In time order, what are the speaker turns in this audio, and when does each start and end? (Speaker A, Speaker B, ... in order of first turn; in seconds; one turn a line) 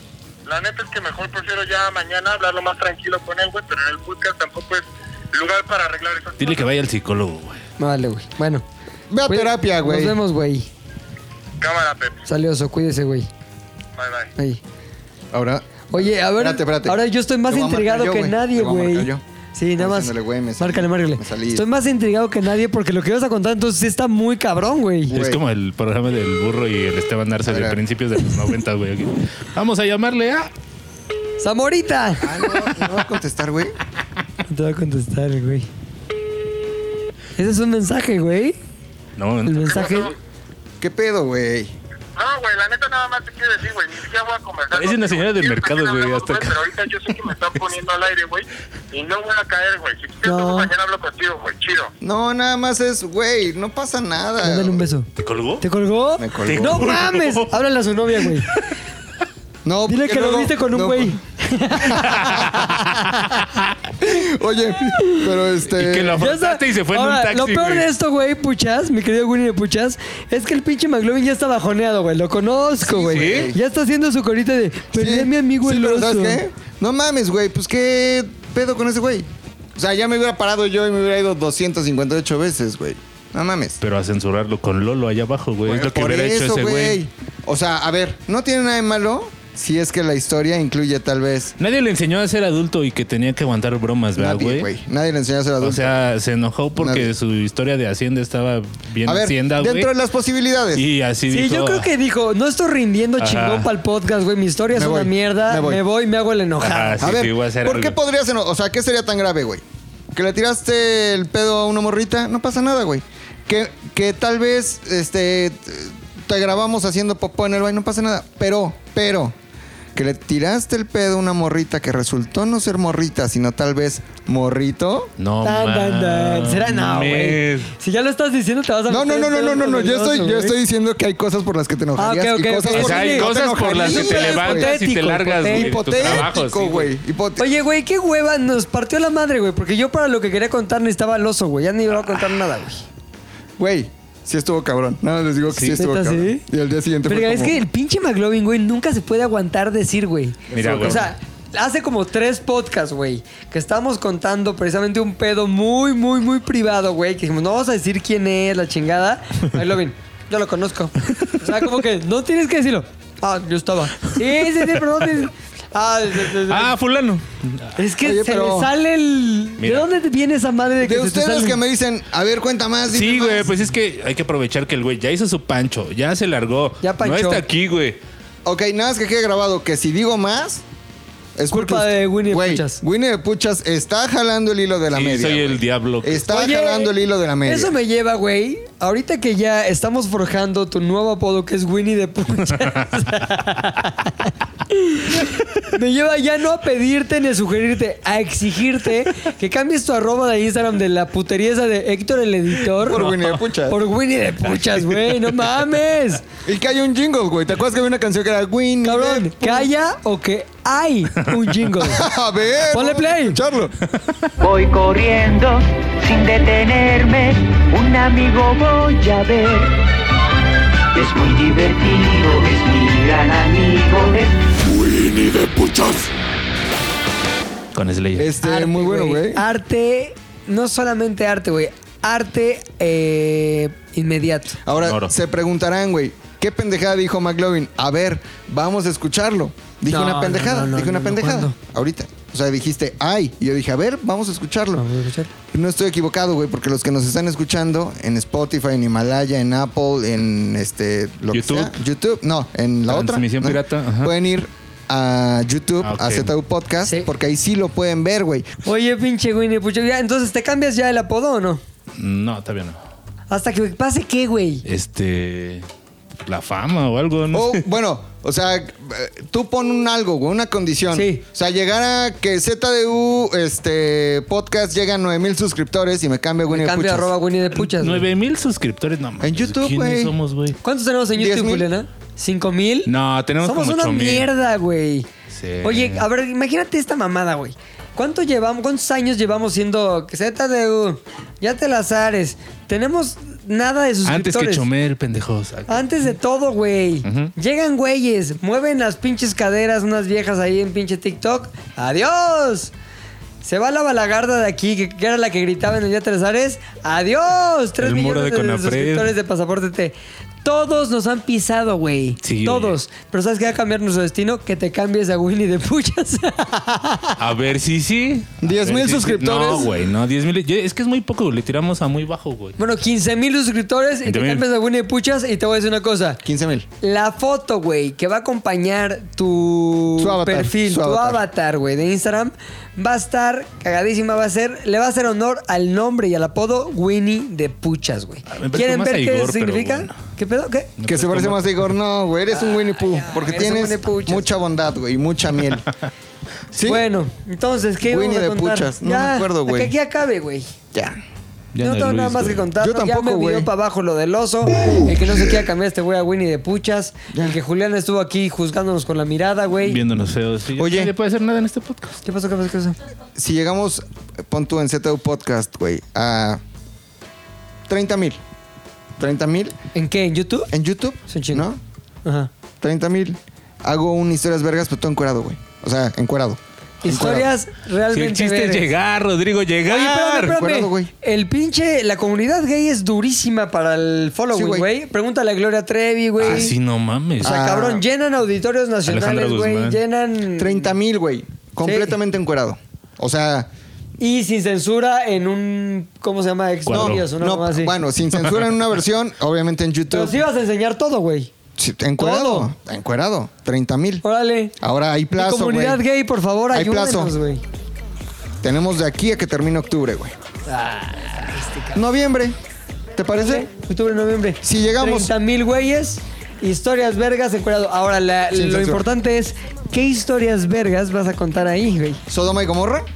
Speaker A: 0.5-6.7
Speaker B: 6.4-7.6
Speaker C: 7.8-8.6
Speaker D: 9.1-10.2
Speaker C: 9.2-10.7
Speaker A: 11.6-12.2
Speaker C: 12.2-13.3
Speaker A: 13.9-14.3
Speaker C: 14.3-14.6
Speaker D: 15.3-19.2
Speaker C: 15.9-25.1
Speaker D: 19.8-21.6
Speaker D: 25.1-25.4
Speaker B: 25.1-30.5
Speaker D: 27.5-27.8
Speaker C: 31.4-32.4
Speaker D: 32.2-33.7
Speaker C: 34.5-35.7
Speaker C: 37.4-38.6
Speaker B: 39.2-40.1
Speaker C: 39.4-40.1
Speaker A: 39.7-40.1
Speaker D: 40.8-41.7
Speaker A: 42.1-51.9
Speaker B: 44.7-46.6
Speaker C: 50.2-50.7
Speaker D: 52.0-54.8
Speaker C: 54.4-55.1
Speaker B: 55.2-55.6
Speaker C: 55.6-58.5
Speaker D: 56.2-56.8
Speaker B: 56.5-57.5
Speaker D: 59.6-61.2
Speaker C: 59.9-63.4
Speaker D: 62.0-62.3
Speaker B: 62.2-62.6
Speaker D: 64.0-66.2
Speaker B: 65.7-67.9
Speaker C: 66.2-76.4
Speaker B: 72.9-73.5
Speaker D: 73.0-73.6
Speaker D: 74.9-83.8
Speaker B: 83.8-87.0
Speaker D: 85.6-91.5
Speaker B: 91.6-94.7
Speaker D: 94.2-96.0
Speaker B: 95.6-99.9
Speaker D: 96.8-97.1
Speaker D: 99.0-100.9
Speaker B: 100.7-101.9
Speaker C: 101.3-107.1
Speaker B: 103.2-103.7
Speaker D: 104.7-105.8
Speaker B: 106.6-108.0
Speaker D: 107.0-119.3
Speaker D: 119.9-125.1
Speaker B: 125.2-127.7
Speaker C: 125.4-130.6
Speaker D: 128.9-134.7
Speaker C: 132.0-136.3
Speaker B: 132.7-136.9
Speaker D: 135.5-137.5
Speaker C: 137.4-142.8
Speaker D: 143.6-147.6
Speaker B: 145.5-145.8
Speaker C: 145.8-146.4
Speaker C: 147.0-166.7
Speaker D: 150.5-151.1
Speaker B: 150.5-151.1
Speaker B: 161.2-161.7
Speaker B: 166.5-167.7
Speaker C: 167.8-171.6
Speaker D: 168.0-168.7
Speaker B: 169.6-169.9
Speaker D: 170.8-173.5
Speaker B: 172.9-178.0
Speaker C: 176.8-177.4
Speaker D: 178.4-180.6
Speaker D: 181.3-187.7
Speaker C: 181.5-182.8
Speaker B: 184.9-186.3
Speaker C: 186.3-206.2
Speaker D: 202.7-203.8
Speaker B: 204.7-205.2
Speaker D: 206.4-209.7
Speaker C: 208.8-212.0
Speaker D: 211.8-213.8
Speaker C: 212.7-213.4
Speaker E: 214.4-219.7
Speaker E: 220.9-224.5
Speaker D: 224.7-226.1
Speaker B: 227.7-228.3
Speaker D: 228.2-229.4
Speaker C: 228.4-234.6
Speaker D: 234.6-244.8
Speaker B: 234.8-235.1
Speaker C: 239.9-241.5
Speaker C: 244.8-245.3
Speaker D: 245.5-258.5
Speaker B: 251.3-251.7
Speaker B: 252.9-254.1
Speaker B: 255.8-256.3
Speaker C: 256.8-257.1
Speaker C: 258.6-261.6
Speaker B: 261.9-262.8
Speaker C: 263.3-264.6
Speaker B: 264.6-265.6
Speaker B: 266.2-267.6
Speaker D: 267.3-277.1
Speaker C: 270.9-271.2
Speaker C: 276.5-278.0
Speaker B: 277.5-280.6
Speaker D: 279.2-280.1
Speaker C: 280.6-282.9
Speaker D: 281.1-281.7
Speaker B: 282.9-284.3
Speaker C: 283.4-285.1
Speaker B: 285.3-286.0
Speaker C: 285.6-294.6
Speaker B: 294.0-296.0
Speaker C: 295.7-302.7
Speaker B: 297.0-297.3
Speaker C: 303.4-317.2
Speaker B: 307.8-309.1
Speaker B: 312.2-312.8
Speaker B: 317.2-322.6
Speaker D: 318.4-319.7
Speaker C: 322.6-326.2
Speaker B: 324.0-324.4
Speaker D: 326.2-326.7
Speaker C: 326.8-340.7
Speaker D: 330.0-331.2
Speaker B: 338.3-340.0
Speaker B: 340.8-341.7
Speaker D: 340.8-345.6
Speaker C: 342.3-344.3
Speaker D: 346.5-346.8
Speaker C: 346.6-350.5
Speaker D: 347.8-349.7
Speaker D: 350.7-351.0
Speaker B: 351.5-352.5
Speaker C: 351.6-359.8
Speaker D: 352.5-353.5
Speaker D: 357.1-357.4
Speaker B: 359.6-362.0
Speaker D: 360.6-360.9
Speaker C: 362.0-362.8
Speaker D: 363.1-366.4
Speaker D: 367.7-368.2
Speaker D: 369.0-369.5
Speaker C: 369.7-370.5
Speaker D: 370.5-371.6
Speaker C: 371.1-371.5
Speaker C: 372.0-372.3
Speaker D: 372.6-377.3
Speaker C: 376.8-378.7
Speaker B: 377.9-380.3
Speaker D: 379.7-380.9
Speaker C: 379.7-386.5
Speaker D: 384.3-384.7
Speaker B: 386.2-387.4
Speaker D: 386.2-386.5
Speaker D: 387.2-387.8
Speaker C: 387.2-390.7
Speaker B: 388.9-389.8
Speaker D: 390.4-393.5
Speaker C: 391.6-392.0
Speaker C: 394.0-397.7
Speaker B: 396.6-397.1
Speaker D: 396.7-400.2
Speaker C: 399.9-401.3
Speaker D: 401.6-404.0
Speaker C: 402.0-402.5
Speaker C: 404.0-404.5
Speaker D: 404.6-405.8
Speaker C: 405.1-407.4
Speaker D: 406.5-407.1
Speaker D: 408.4-410.1
Speaker C: 410.5-411.8
Speaker D: 411.7-412.4
Speaker D: 413.0-413.5
Speaker C: 413.1-422.0
Speaker D: 414.4-415.1
Speaker D: 418.3-418.9
Speaker D: 422.1-422.9